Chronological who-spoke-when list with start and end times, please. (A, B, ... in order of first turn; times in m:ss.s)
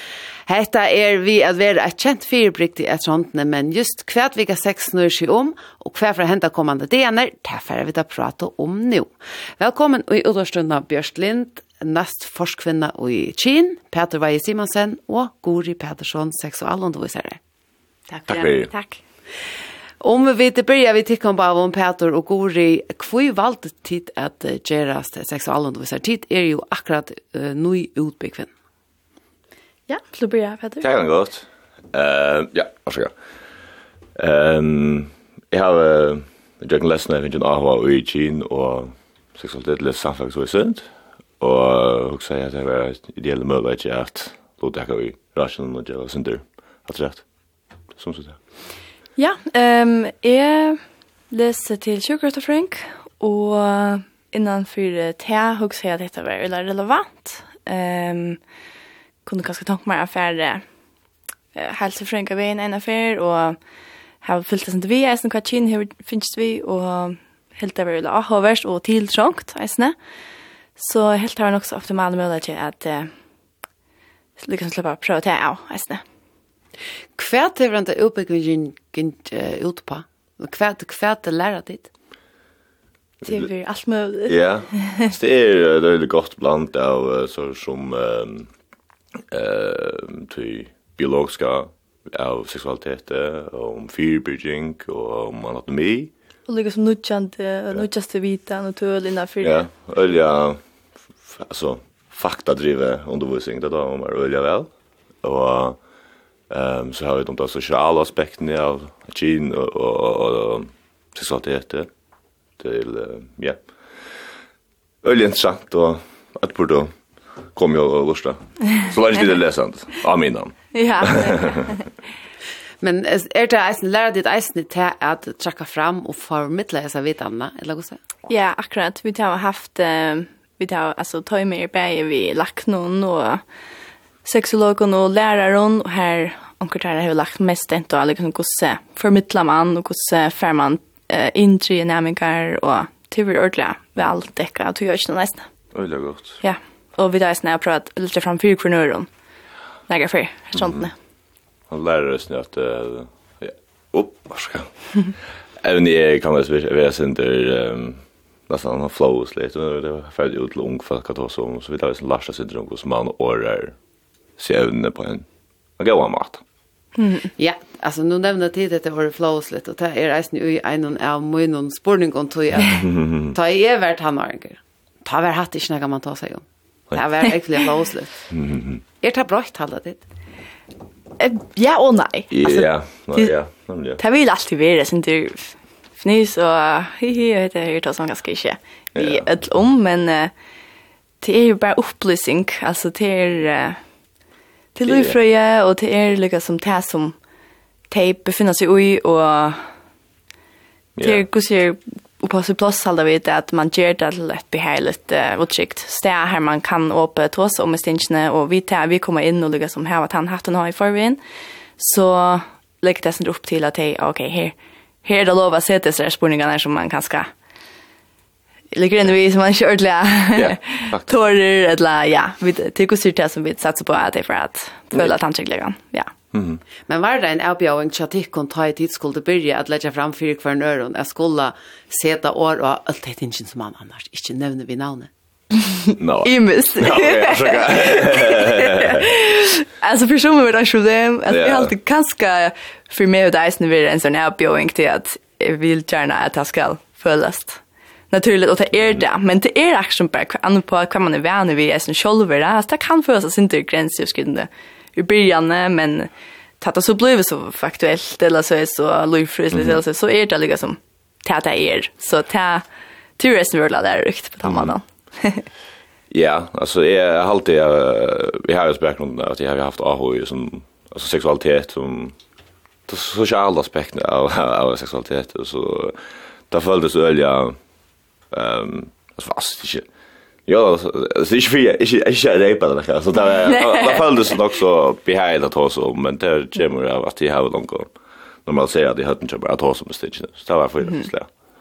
0:00.5-0:17.4 A
0:18.1-0:19.0 B
0:18.3-0:18.7 C
0:20.0-0:28.5 A
0:29.9-0:30.8 B
0:30.8-0:33.1 C
0:34.2-0:40.9 C
0:41.4-0:47.3 C
0:48.0-0:48.4 C
0:49.2-0:58.4 B
0:59.3-1:00.7 B
1:01.6-1:03.6 B
1:04.2-1:10.0 B
1:10.8-1:13.1 B
1:14.4-1:16.0 B
1:17.2-1:21.9 A
1:23.3-1:24.9 B
1:24.3-1:28.5 C
1:29.3-1:36.1 C
1:36.5-1:39.6 B
1:39.4-1:40.6 C
1:41.3-1:44.7 C
1:45.2-1:45.8 C
1:46.5-1:51.9 C
1:52.6-1:53.6 C
1:55.0-1:56.9 C
1:57.6-2:01.5 C
2:00.8-2:01.8 B
2:02.8-2:08.0 A
2:08.3-2:13.4 B
2:14.2-2:25.5 B
2:25.7-2:26.4 C
2:26.4-2:29.1 B
2:29.9-2:30.9 B
2:30.6-2:30.9 C
2:31.7-2:35.0 C
2:35.6-2:43.8 C
2:44.4-2:45.3 C
2:45.8-2:46.4 C
2:47.0-2:47.3 B
2:47.4-2:58.2 A
2:52.7-2:53.3 C
2:58.3-2:58.8 C
2:59.0-3:00.0 A
3:01.2-3:03.4 B
3:02.3-3:04.0 C
3:04.0-3:10.3 B
3:09.0-3:09.3 C
3:11.2-3:13.8 B
3:14.8-3:17.2 B
3:14.9-3:15.2 C
3:17.9-3:19.7 B
3:21.0-3:21.2 C
3:21.0-3:31.2 B
3:31.8-3:37.3 B
3:38.7-3:46.1 B
3:40.4-3:41.1 C
3:46.3-3:46.6 C
3:46.9-3:55.1 A
3:56.0-3:59.0 C
3:56.2-4:22.6 B
4:01.3-4:01.8 C
4:19.5-4:19.8 C
4:23.2-4:25.5 B
4:24.5-4:24.7 C
4:26.1-4:32.2 C
4:32.9-4:36.0 C
4:36.5-4:37.6 C
4:38.3-4:39.8 C
4:40.5-4:47.9 C
4:43.5-4:44.2 B
4:48.5-4:51.3 C
4:50.8-4:51.1 B